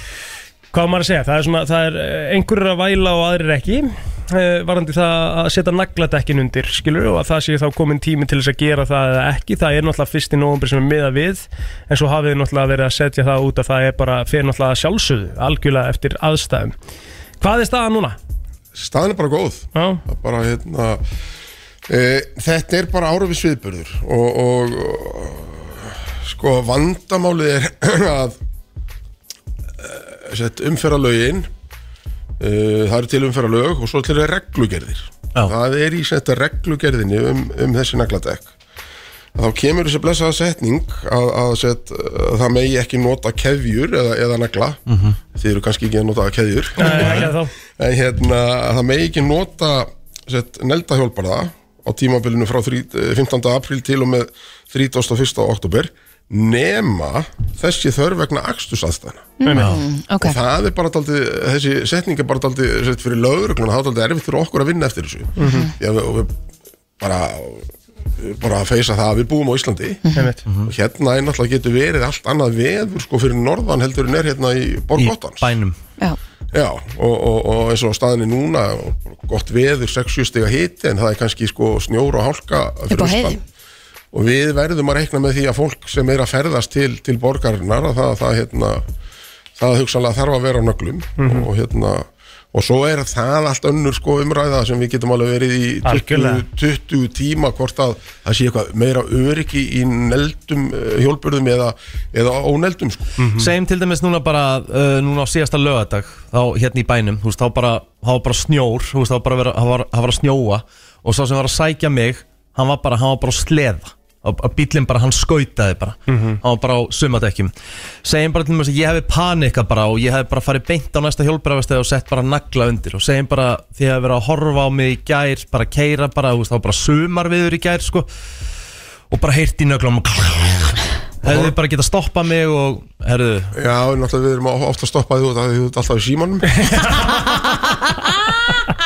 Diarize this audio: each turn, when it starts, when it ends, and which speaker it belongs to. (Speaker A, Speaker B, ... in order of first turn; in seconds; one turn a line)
Speaker A: 0.7-16.8
Speaker A: 17.4-18.2
Speaker B: 18.8-21.0
Speaker A: 19.8-20.0
Speaker B: 21.9-28.4
Speaker B: 29.8-31.5
Speaker B: 32.4-38.5
Speaker B: 39.4-44.8
Speaker C: 44.9-45.2
Speaker B: 45.3-59.4
Speaker A: 46.8-47.5
Speaker C: 46.9-47.3
Speaker D: 59.4-60.4
Speaker A: 59.5-59.8
Speaker C: 59.6-59.8
Speaker B: 60.2-66.3
Speaker A: 65.4-65.7
Speaker D: 65.4-65.7
Speaker B: 67.0-70.0
Speaker D: 70.0-70.3
Speaker A: 70.2-70.5
Speaker C: 70.5-70.7
Speaker B: 70.6-75.5
Speaker C: 75.0-75.8
Speaker B: 76.5-83.4
Speaker D: 82.9-83.4
Speaker B: 84.1-88.8
Speaker B: 89.6-103.1
Speaker A: 91.2-91.5
Speaker A: 95.8-96.5
Speaker A: 103.2-103.5
Speaker C: 103.4-117.5
Speaker A: 116.1-116.4
Speaker C: 118.0-128.1
Speaker C: 129.1-133.5
Speaker B: 131.3-131.5
Speaker B: 133.5-137.2